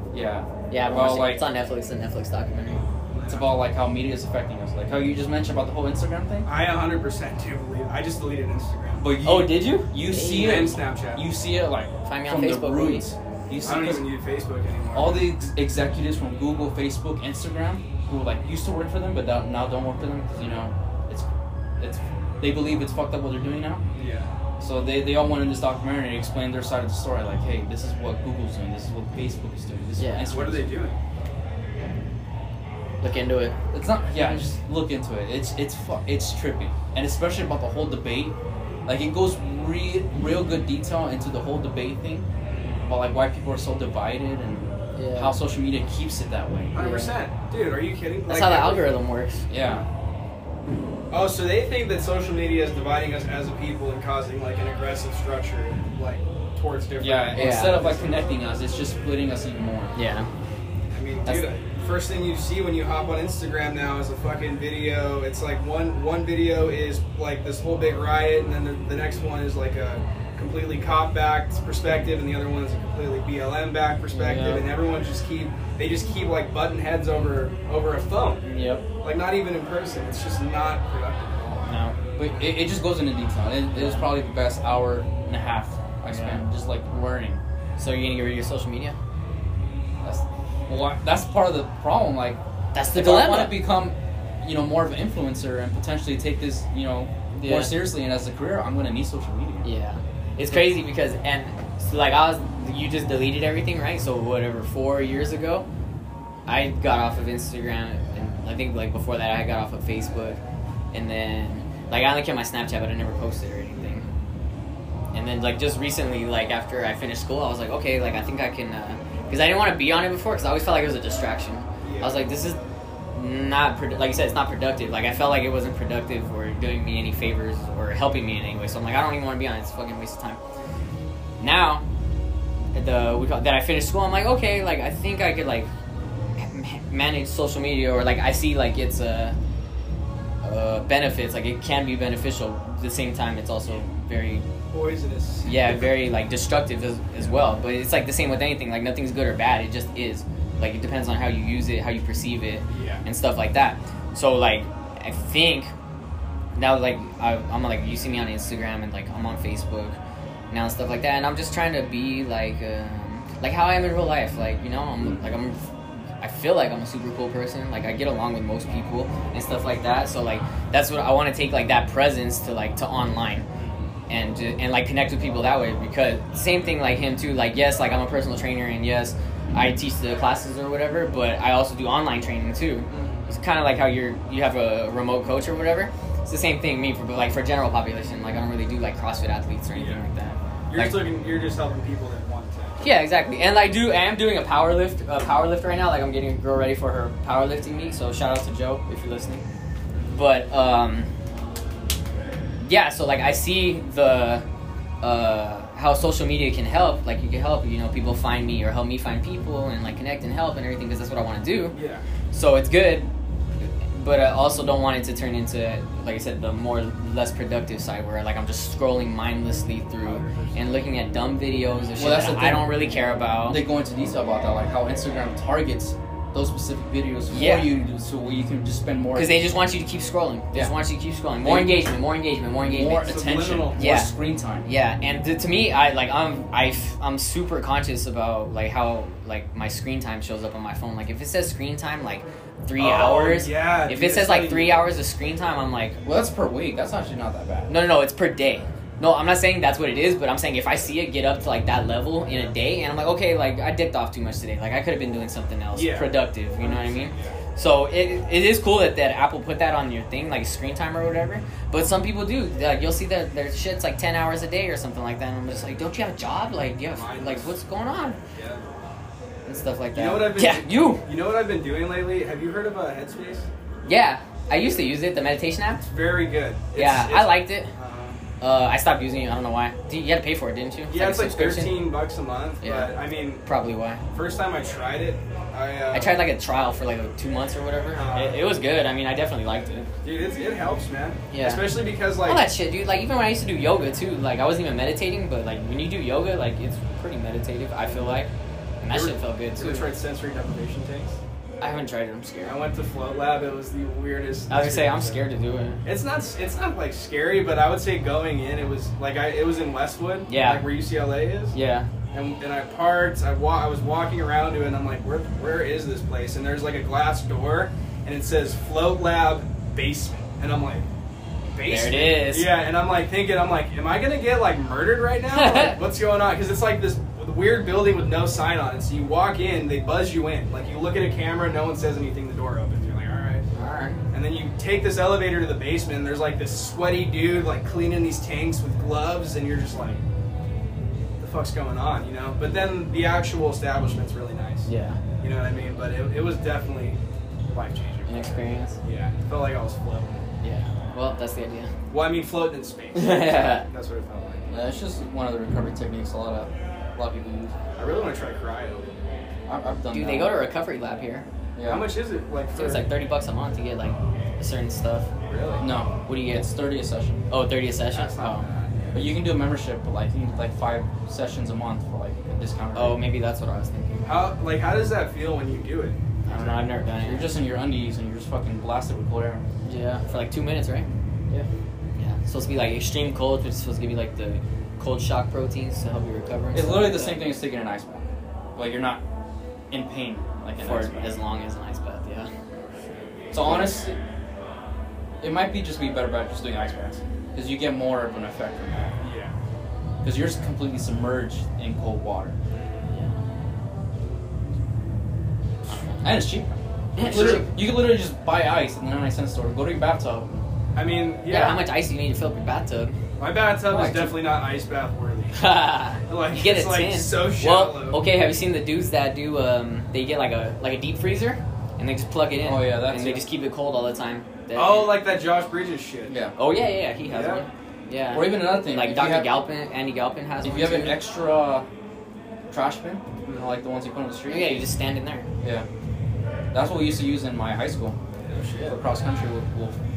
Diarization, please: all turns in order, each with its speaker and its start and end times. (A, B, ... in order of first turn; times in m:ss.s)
0:00.1-0:01.4 A
0:00.7-0:02.8 B
0:03.1-0:03.5 C
0:03.3-0:06.5 A
0:06.4-0:09.1 C
0:09.0-0:14.0 A
0:09.2-0:10.6 B
0:10.3-0:11.2 C
0:12.0-0:13.1 B
0:13.6-0:15.3 C
0:14.9-0:21.3 A
0:21.8-0:23.8 A
0:24.0-0:24.3 C
0:24.6-0:30.8 A
0:30.0-0:30.3 B
0:30.3-0:31.0 C
0:33.0-0:33.6 B
0:33.7-0:38.3 A
0:38.8-0:42.2 A
0:42.5-0:42.8 C
0:42.8-0:46.7 A
0:44.9-0:45.3 B
0:46.7-0:48.9 C
0:46.7-0:47.2 B
0:48.3-0:49.4 B
0:49.5-0:49.8 A
0:51.1-0:58.2 C
0:57.0-0:59.9 A
0:57.4-0:57.8 B
0:59.9-1:00.3 B
1:00.9-1:18.4 C
1:14.1-1:14.6 B
1:18.4-1:18.8 B
1:19.0-1:21.6 C
1:21.6-1:22.0 B
1:22.2-1:27.4 A
1:23.7-1:24.1 B
1:26.0-1:26.4 B
1:27.8-1:29.0 B
1:30.0-1:32.4 A
1:32.7-1:33.6 B
1:32.9-1:39.6 A
1:37.3-1:37.7 B
1:39.6-1:45.6 B
1:46.5-1:50.4 B
1:50.9-1:54.0 B
1:55.1-2:02.6 B
2:01.8-2:02.3 C
2:03.1-2:10.4 B
2:11.4-2:11.8 B
2:12.7-2:15.7 B
2:16.4-2:19.4 B
2:20.4-2:24.4 B
2:24.7-2:25.5 C
2:25.4-2:35.7 B
2:32.7-2:33.0 C
2:36.5-2:40.0 B
2:40.5-2:45.7 B
2:46.2-2:53.4 B
2:53.5-2:53.9 C
2:54.1-3:11.0 B
3:02.9-3:03.3 C
3:09.7-3:10.0 C
3:10.7-3:12.8 C
3:12.8-3:19.4 B
3:20.1-3:21.1 B
3:22.6-3:24.4 B
3:25.0-3:31.8 B
3:31.7-3:32.0 C
3:32.3-3:33.1 B
3:33.6-3:43.6 B
3:40.0-3:40.8 C
3:42.0-3:42.7 A
3:43.5-3:49.4 A
3:47.3-3:47.7 B
3:49.1-3:53.1 B
3:51.4-3:51.9 A
3:52.6-3:54.7 A
3:53.0-3:53.8 C
3:53.8-3:54.1 B
3:54.6-4:06.0 B
4:02.8-4:04.9 C
4:06.0-4:07.7 A
4:07.7-4:28.2 B
4:12.3-4:12.6 C
4:15.7-4:17.4 C
4:26.9-4:27.5 C
4:28.3-4:28.6 C
4:29.4-4:31.0 B
4:29.9-4:33.5 C
4:33.8-4:35.8 B
4:35.8-4:38.2 C
4:36.8-4:37.7 B
4:38.4-4:41.9 B
4:40.9-4:43.4 C
4:42.6-4:44.0 B
4:44.1-4:46.2 C
4:45.9-4:49.9 B
4:47.9-4:48.4 C
4:50.0-4:52.4 C
4:51.3-4:58.3 B
4:58.8-4:59.9 B
4:58.9-5:01.2 C
5:01.6-5:02.6 B
5:02.4-5:05.2 C
5:04.5-5:05.8 B
5:05.8-5:11.5 C
5:10.3-5:10.6 B
5:11.5-5:11.9 B
5:12.1-5:20.8 C
5:21.5-5:33.4 C
5:21.6-5:22.5 B
5:25.3-5:25.8 B
5:33.5-5:34.0 B
5:34.1-5:40.0 C
5:41.2-5:44.7 C
5:44.6-5:45.0 B
5:45.2-5:47.0 C
5:47.5-5:50.2 C
5:48.1-5:48.8 B
5:50.4-5:51.7 B
5:51.9-5:54.5 C
5:52.9-5:53.7 B
5:54.5-5:57.5 A
5:57.8-5:58.9 C
5:59.5-6:00.4 A
5:59.9-6:01.2 B
6:01.6-6:01.9 A
6:01.6-6:02.8 C
6:02.5-6:05.1 B
6:05.3-6:05.7 C
6:05.6-6:07.2 A
6:06.0-6:06.5 B
6:07.3-6:08.5 B
6:07.9-6:09.1 C
6:08.9-6:13.0 A
6:12.7-6:14.1 B
6:14.0-6:16.7 C
6:16.2-6:17.3 B
6:17.0-6:19.4 A
6:19.6-6:20.9 B
6:22.0-6:27.2 B
6:26.5-6:29.0 A
6:29.7-6:31.1 A
6:30.6-6:32.3 B
6:33.3-6:34.0 A
6:33.4-6:33.7 B
6:35.2-6:39.0 A
6:39.0-6:39.3 C
6:40.0-6:42.4 A
6:42.5-6:42.9 C
6:42.9-6:43.2 B
6:45.7-6:46.1 B
6:46.0-6:50.4 A
6:47.0-6:47.5 B
6:47.0-6:47.4 C
6:50.7-6:51.6 C
6:51.3-6:52.9 B
6:53.2-6:58.0 C
6:53.6-6:54.2 A
6:55.3-7:05.0 B
7:02.4-7:03.2 A
7:04.5-7:06.2 C
7:06.1-7:06.3 A
7:06.4-7:11.0 B
7:07.1-7:07.4 C
7:08.1-7:09.4 A
7:10.4-7:11.6 A
7:12.5-7:14.6 A
7:13.2-7:13.5 C
7:14.3-7:15.3 B
7:16.5-7:18.0 A
7:18.2-7:18.8 C
7:18.6-7:19.8 A